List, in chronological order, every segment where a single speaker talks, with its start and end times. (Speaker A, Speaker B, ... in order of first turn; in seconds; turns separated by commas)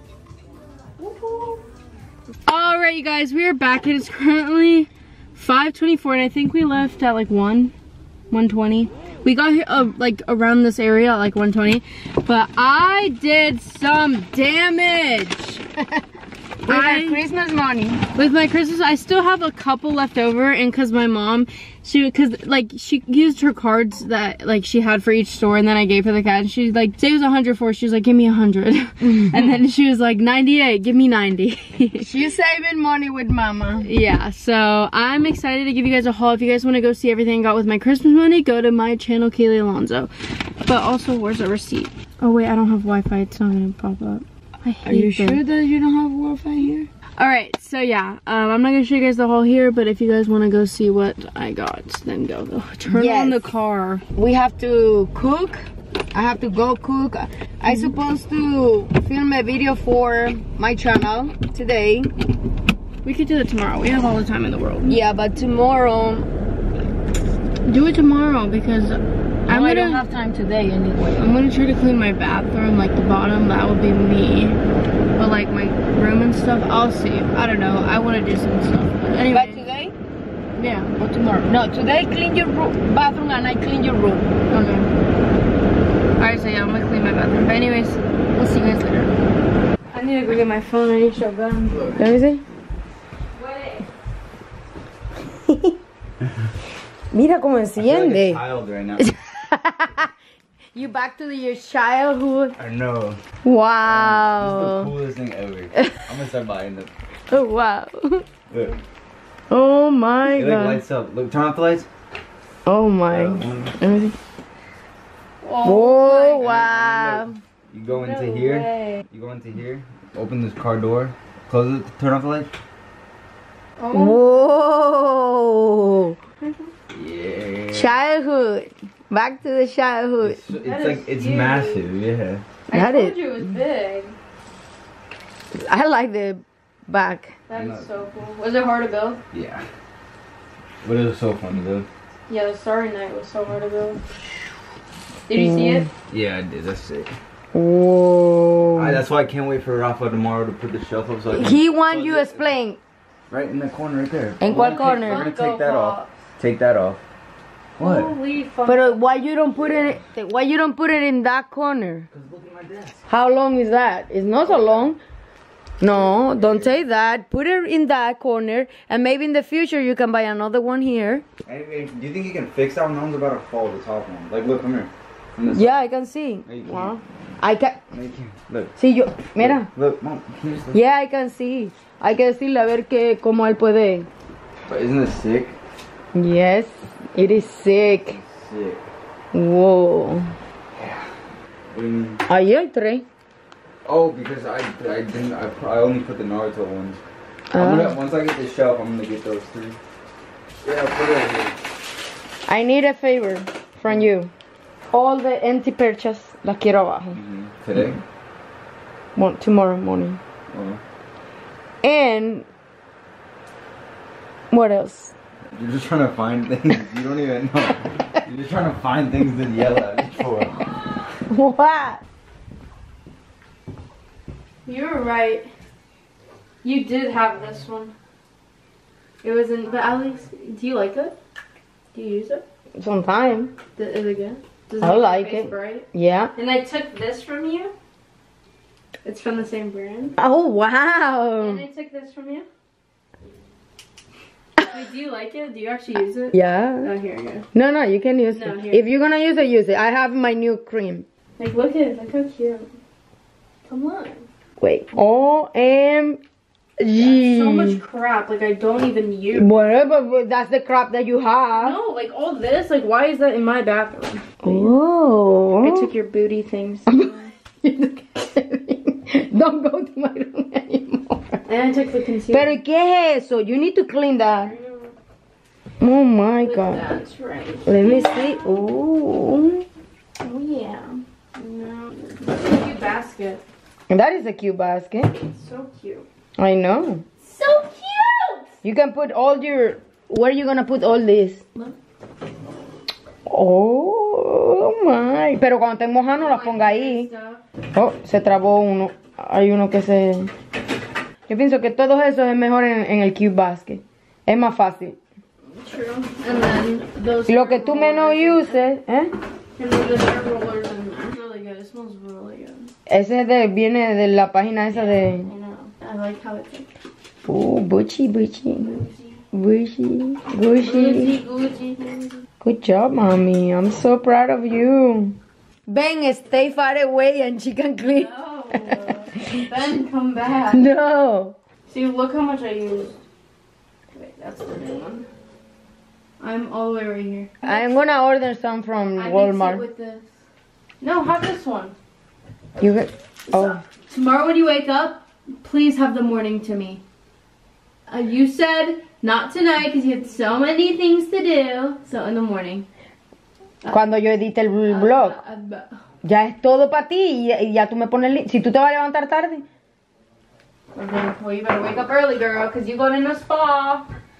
Speaker A: 1.0-1.6, Speaker A: 2.5-7.7, Speaker A: 8.3-15.6, Speaker A: 16.6-17.2, Speaker B: 16.6-18.0, Speaker A: 18.1-32.1, Speaker B: 32.0-33.9, Speaker A: 33.8-45.4, Speaker B: 44.8-46.9, Speaker A: 47.2-54.0, Speaker B: 52.9-53.5, Speaker B: 54.1-62.1, Speaker A: 57.7-58.0, Speaker A: 63.0-65.0, Speaker B: 64.8-66.3, Speaker A: 67.6-70.0, Speaker B: 69.5-71.3, Speaker A: 71.2-74.6, Speaker A: 75.2-79.7, Speaker B: 79.3-79.9, Speaker A: 80.5-81.0, Speaker B: 81.0-84.3, Speaker A: 84.5-84.9, Speaker A: 86.2-89.1, Speaker A: 89.9-92.0, Speaker B: 91.9-92.4, Speaker A: 93.3-93.9, Speaker B: 95.5-95.7, Speaker B: 97.1-98.4, Speaker C: 97.7-99.0, Speaker B: 99.0-100.1, Speaker B: 100.7-102.5, Speaker C: 102.6-103.2, Speaker B: 103.4-104.9, Speaker C: 103.8-106.9, Speaker B: 107.3-108.3, Speaker C: 108.5-108.8, Speaker B: 109.5-110.8, Speaker C: 110.3-111.9, Speaker B: 112.7-114.1, Speaker C: 113.1-113.8, Speaker A: 115.4-116.5, Speaker B: 115.6-117.4, Speaker C: 116.4-122.5, Speaker A: 117.9-119.0, Speaker A: 123.8-124.3, Speaker B: 123.9-126.2, Speaker A: 126.4-126.7, Speaker C: 126.9-127.9, Speaker B: 127.7-130.4, Speaker C: 130.2-132.4, Speaker A: 130.6-131.8, Speaker A: 132.7-134.2, Speaker B: 132.7-133.2, Speaker B: 135.5-137.4, Speaker A: 137.5-139.2, Speaker C: 137.5-137.9, Speaker C: 139.3-139.6, Speaker C: 140.8-141.9, Speaker A: 142.3-144.0, Speaker A: 145.3-145.9, Speaker B: 145.3-145.9, Speaker C: 146.1-147.1, Speaker B: 147.5-149.0, Speaker C: 148.8-152.5, Speaker B: 151.3-152.8, Speaker C: 153.3-157.0, Speaker B: 154.4-155.3, Speaker A: 154.5-156.1, Speaker C: 157.8-158.1, Speaker A: 157.8-159.3, Speaker B: 158.7-162.1, Speaker C: 162.1-163.0, Speaker B: 163.1-165.0, Speaker C: 164.4-164.9, Speaker B: 165.8-171.2, Speaker C: 165.8-166.8, Speaker C: 171.4-175.8, Speaker B: 175.5-177.8, Speaker C: 176.4-177.0, Speaker C: 177.9-178.7, Speaker B: 178.8-179.7, Speaker C: 179.3-180.8, Speaker B: 180.7-184.1, Speaker C: 184.7-185.6, Speaker B: 186.1-188.2, Speaker C: 187.8-188.8, Speaker B: 189.3-190.3, Speaker C: 190.8-191.0, Speaker C: 191.7-192.2, Speaker B: 192.3-193.0, Speaker C: 193.8-197.0, Speaker B: 197.5-198.0, Speaker C: 197.5-199.8, Speaker C: 200.6-201.6, Speaker B: 202.4-204.3, Speaker B: 204.9-207.2, Speaker C: 207.1-208.0, Speaker B: 209.2-210.2, Speaker C: 210.5-210.8, Speaker B: 211.8-212.4, Speaker B: 214.5-215.1, Speaker C: 215.5-220.7, Speaker B: 221.3-222.0, Speaker A: 224.6-225.5, Speaker A: 226.6-227.9, Speaker A: 229.2-231.2, Speaker A: 231.9-232.4, Speaker B: 232.8-233.5, Speaker A: 233.7-237.7, Speaker B: 234.8-236.3, Speaker A: 239.0-240.1, Speaker B: 240.2-241.6, Speaker A: 241.4-242.4, Speaker A: 244.6-247.4, Speaker B: 246.3-246.9, Speaker B: 247.5-251.0, Speaker A: 248.3-248.8, Speaker A: 251.4-252.7, Speaker A: 253.6-254.3, Speaker B: 254.6-256.2, Speaker B: 256.8-257.8, Speaker A: 256.9-259.9, Speaker B: 259.3-261.8, Speaker A: 261.6-264.7, Speaker B: 264.4-265.9, Speaker A: 265.6-267.3, Speaker B: 266.9-271.5, Speaker A: 271.5-272.6, Speaker B: 272.3-274.5, Speaker A: 274.4-274.9, Speaker B: 275.8-276.8, Speaker A: 276.4-278.6, Speaker B: 277.6-279.6, Speaker A: 280.2-283.4, Speaker B: 283.9-285.1, Speaker A: 285.2-286.1, Speaker B: 286.4-287.0, Speaker A: 287.2-288.5, Speaker B: 288.6-291.4, Speaker B: 293.2-297.1, Speaker A: 296.2-297.4, Speaker B: 297.7-300.3, Speaker B: 301.3-305.0, Speaker A: 305.4-308.6, Speaker B: 307.3-309.1, Speaker A: 309.6-312.7, Speaker B: 312.9-315.3, Speaker A: 314.7-316.8, Speaker B: 317.2-318.8, Speaker A: 318.6-319.2, Speaker B: 319.3-321.1, Speaker A: 320.6-322.2, Speaker B: 322.4-329.5, Speaker A: 327.8-330.7, Speaker B: 330.5-331.4, Speaker A: 331.7-333.0, Speaker A: 333.9-335.1, Speaker A: 336.2-337.8, Speaker B: 337.4-339.6, Speaker A: 339.0-340.0, Speaker A: 340.8-341.8, Speaker B: 342.6-343.6, Speaker A: 343.3-346.8, Speaker A: 347.9-352.7, Speaker B: 353.7-355.2, Speaker A: 354.7-355.8, Speaker B: 356.0-359.4, Speaker A: 360.7-363.9